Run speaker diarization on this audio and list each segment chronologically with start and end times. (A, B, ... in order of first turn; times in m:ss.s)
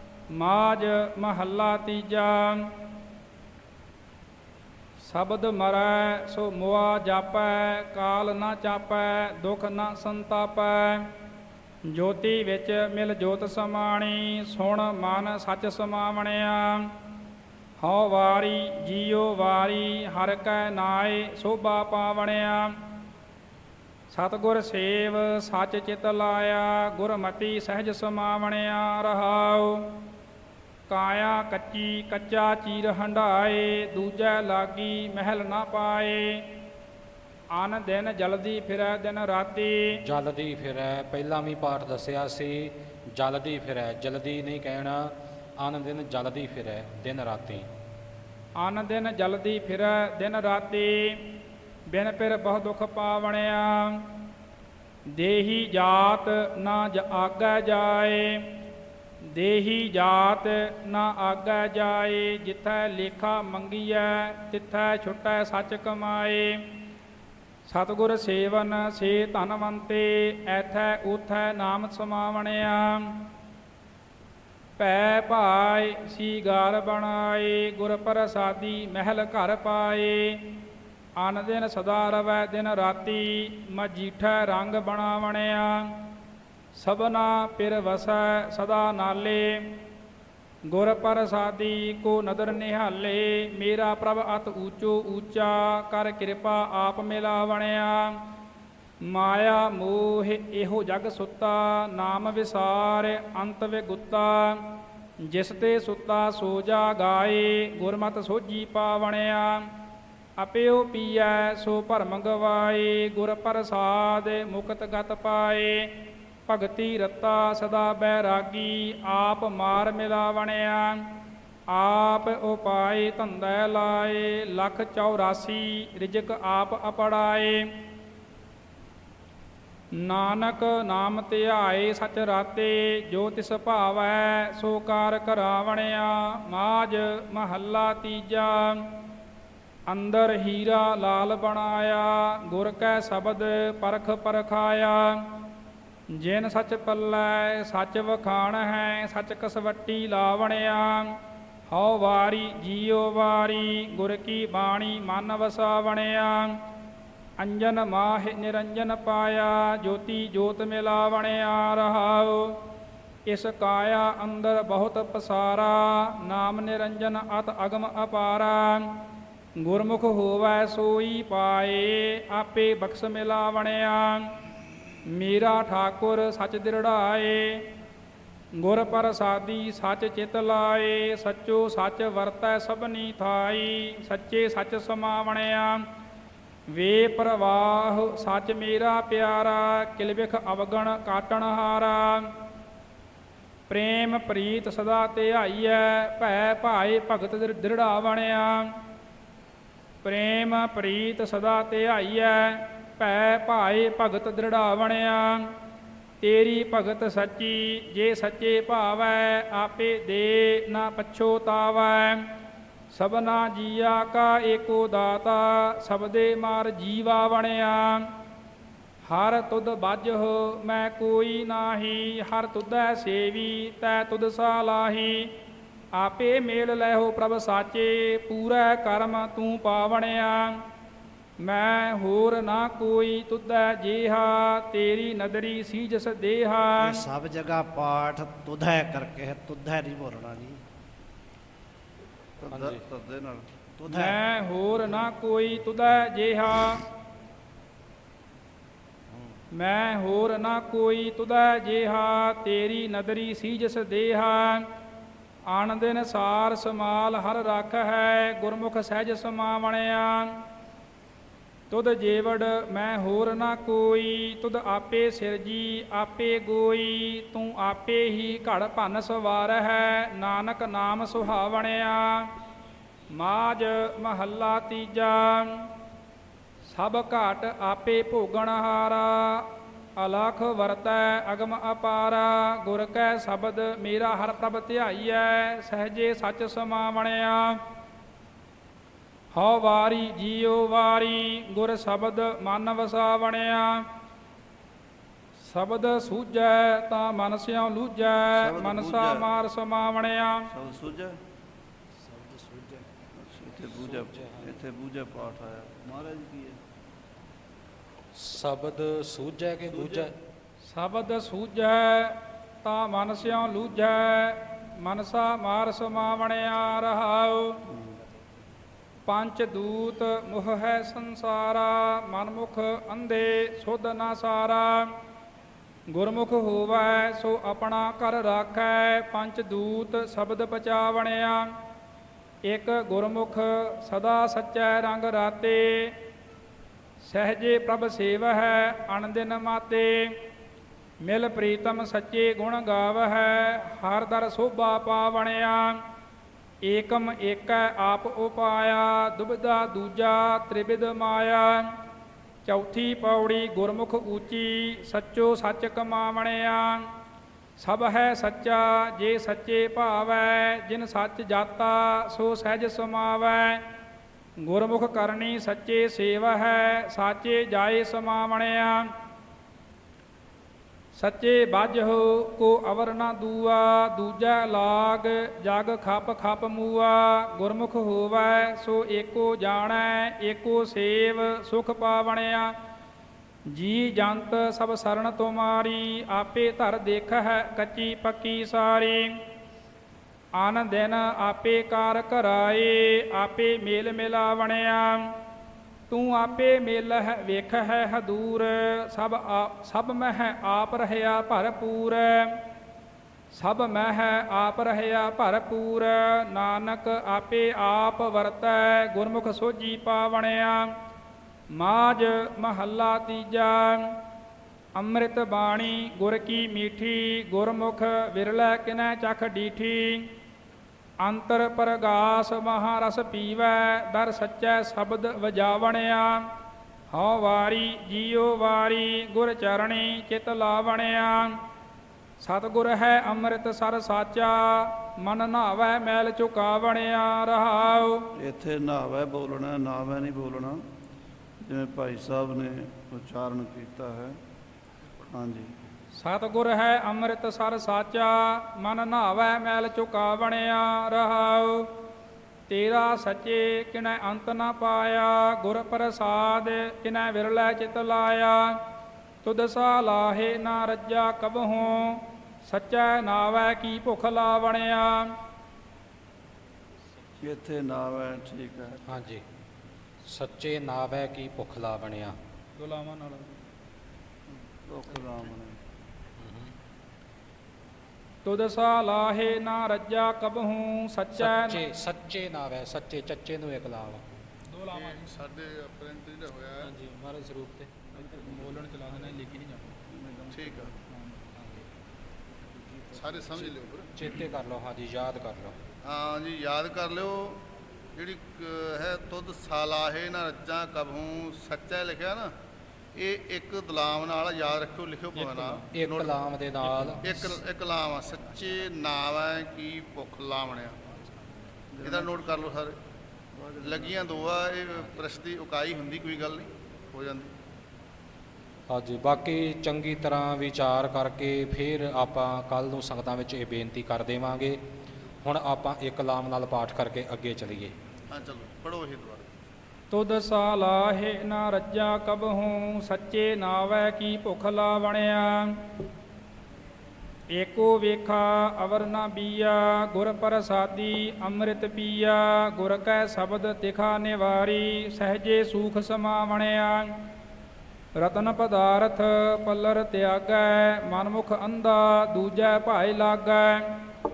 0:00.3-0:02.7 A
0:05.1-0:11.1 A
0:11.9-0:16.9 A
0:17.8-0:22.8 A
0:24.1-0:30.0 A
0:30.9-0:36.5 A
0:37.6-0:40.0 A
0:40.0-0:47.7 B
0:48.6-0:51.3 A
0:51.9-0:54.2 A
0:55.1-0:58.5 A
0:59.2-1:06.6 A
1:07.7-1:13.2 A
1:14.8-1:20.6 A
1:21.2-1:26.1 A
1:26.8-1:29.8 A
1:30.7-1:38.2 A
1:39.1-1:49.7 A
1:50.4-1:55.9 A
1:56.5-2:01.2 A
2:01.7-2:07.7 A
2:09.9-2:19.0 A
2:19.9-2:25.4 A
2:26.2-2:31.2 A
2:31.7-2:36.6 A
2:37.4-2:42.6 A
2:43.3-2:49.1 A
2:49.6-2:54.3 A
2:55.1-2:57.6 A
2:58.6-3:05.8 A
3:06.7-3:12.3 A
3:13.7-3:18.7 A
3:20.0-3:25.5 A
3:26.2-3:32.2 A
3:32.9-3:38.1 A
3:39.1-3:45.3 A
3:45.9-3:50.6 A
3:51.4-3:57.0 A
3:56.8-4:00.6 C
4:02.4-4:03.5 D
4:02.5-4:02.8 B
4:03.8-4:04.2 C
4:03.9-4:06.8 A
4:09.6-4:14.6 A
4:15.5-4:20.4 A
4:21.7-4:32.3 A
4:33.1-4:35.7 A
4:36.7-4:47.6 A
4:49.4-4:53.9 A
4:55.4-5:00.5 A
4:58.3-4:59.3 D
5:00.5-5:01.2 D
5:02.1-5:02.8 C
5:03.1-5:06.6 D
5:03.9-5:04.5 B
5:08.1-5:10.1 B
5:09.7-5:10.1 D
5:10.6-5:17.6 A
5:19.1-5:24.9 A
5:25.9-5:31.5 A
5:32.5-5:35.9 A
5:37.0-5:40.1 A
5:41.0-5:45.8 A
5:46.6-5:51.7 A
5:52.4-5:56.9 A
5:57.6-6:03.6 A
6:04.4-6:08.9 A
6:11.0-6:22.5 A
6:23.5-6:29.2 A
6:30.4-6:35.1 A
6:35.9-6:42.4 A
6:43.3-6:50.7 A
6:51.5-6:54.0 A
6:54.8-7:00.1 A
7:01.0-7:06.3 A
7:06.9-7:11.4 A
7:12.2-7:18.1 A
7:18.2-7:20.6 D
7:21.4-7:24.2 D
7:25.1-7:25.5 D
7:26.0-7:31.7 A
7:32.5-7:38.6 A
7:39.2-7:45.1 A
7:47.2-7:48.9 D
7:48.9-7:49.2 B
7:50.0-7:52.2 B
7:52.6-7:53.4 A
7:54.6-7:55.6 D
7:56.2-7:56.5 B
7:58.2-8:01.6 A
8:01.2-8:04.1 B
8:04.6-8:05.0 A
8:04.7-8:06.8 E
8:06.6-8:08.0 B
8:08.4-8:09.8 A
8:10.3-8:10.7 E
8:12.9-8:13.9 E
8:13.9-8:15.6 B
8:15.8-8:17.4 E
8:17.9-8:22.3 E
8:22.9-8:26.2 E
8:25.2-8:27.4 B
8:27.0-8:30.8 E
8:31.7-8:32.2 D
8:31.8-8:32.8 E
8:33.4-8:34.5 D
8:33.6-8:37.3 E
8:38.7-8:44.6 B
8:45.2-8:47.7 B
8:48.1-8:49.3 E
8:49.9-8:55.6 A
8:57.3-9:07.0 A
9:08.0-9:13.8 A